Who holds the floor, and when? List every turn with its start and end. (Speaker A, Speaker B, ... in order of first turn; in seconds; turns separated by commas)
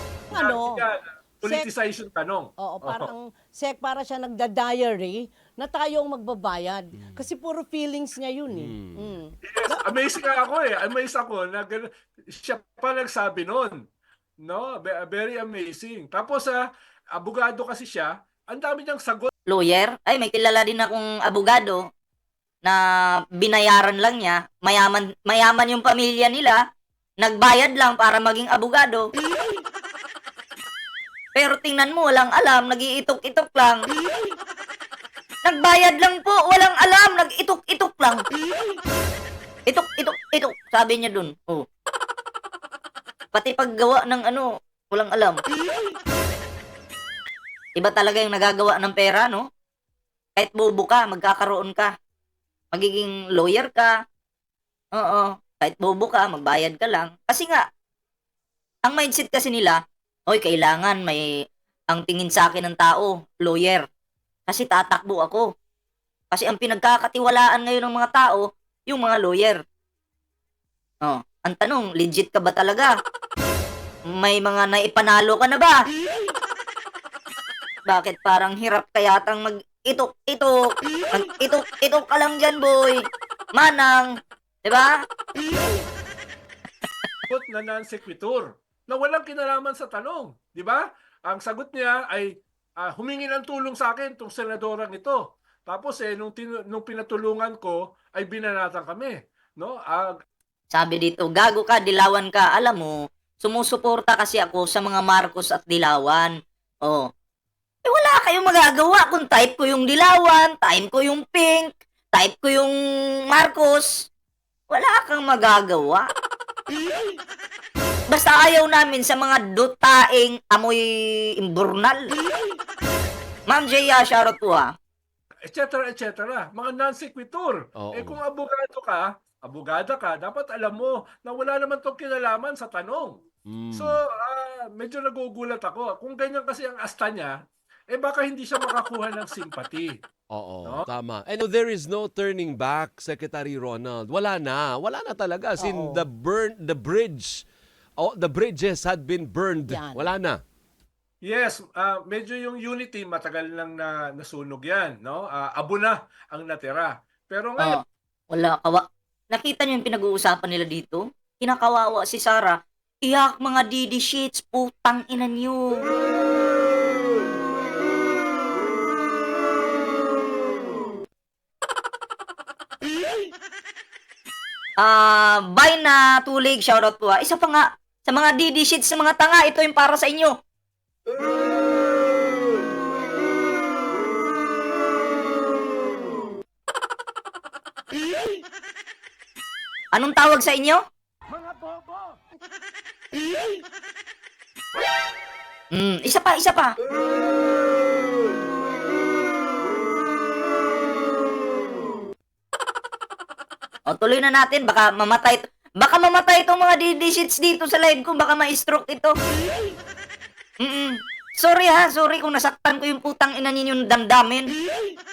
Speaker A: 0.3-3.1, Speaker B: 0.3-0.8, Speaker B: 2.6-9.8, Speaker C: 7.0-7.2, Speaker C: 8.5-9.2, Speaker A: 9.4-13.8, Speaker A: 14.4-16.6, Speaker A: 17.2-19.3, Speaker D: 19.5-21.9, Speaker D: 22.6-26.6, Speaker D: 27.2-29.1, Speaker D: 31.4-33.8, Speaker D: 35.5-38.2, Speaker D: 39.7-41.6, Speaker D: 43.3-45.4, Speaker D: 47.8-49.4, Speaker D: 50.4-51.9, Speaker D: 52.7-53.9, Speaker D: 55.0-57.6, Speaker D: 58.9-61.3, Speaker D: 61.9-63.9, Speaker D: 64.5-65.5, Speaker D: 66.3-69.6, Speaker D: 71.0-72.9, Speaker D: 74.2-75.8, Speaker D: 77.9-80.6, Speaker D: 81.1-83.0, Speaker D: 83.6-84.1, Speaker D: 84.7-85.0, Speaker A: 87.3-100.2, Speaker D: 100.7-106.3, Speaker D: 107.8-112.7, Speaker D: 113.3-114.1, Speaker D: 114.7-116.1, Speaker D: 118.1-120.8, Speaker D: 121.4-122.1, Speaker D: 123.5-124.7, Speaker A: 125.5-133.2, Speaker C: 127.8-128.2, Speaker C: 133.5-134.0, Speaker A: 133.7-137.4, Speaker A: 137.9-140.0, Speaker C: 140.3-147.5, Speaker B: 145.6-146.1, Speaker C: 148.0-150.4, Speaker B: 149.7-150.1, Speaker A: 151.2-157.8, Speaker D: 158.3-165.8, Speaker D: 174.8-180.3, Speaker D: 189.9-190.8, Speaker D: 195.7-196.8, Speaker D: 203.9-209.2, Speaker D: 210.6-214.5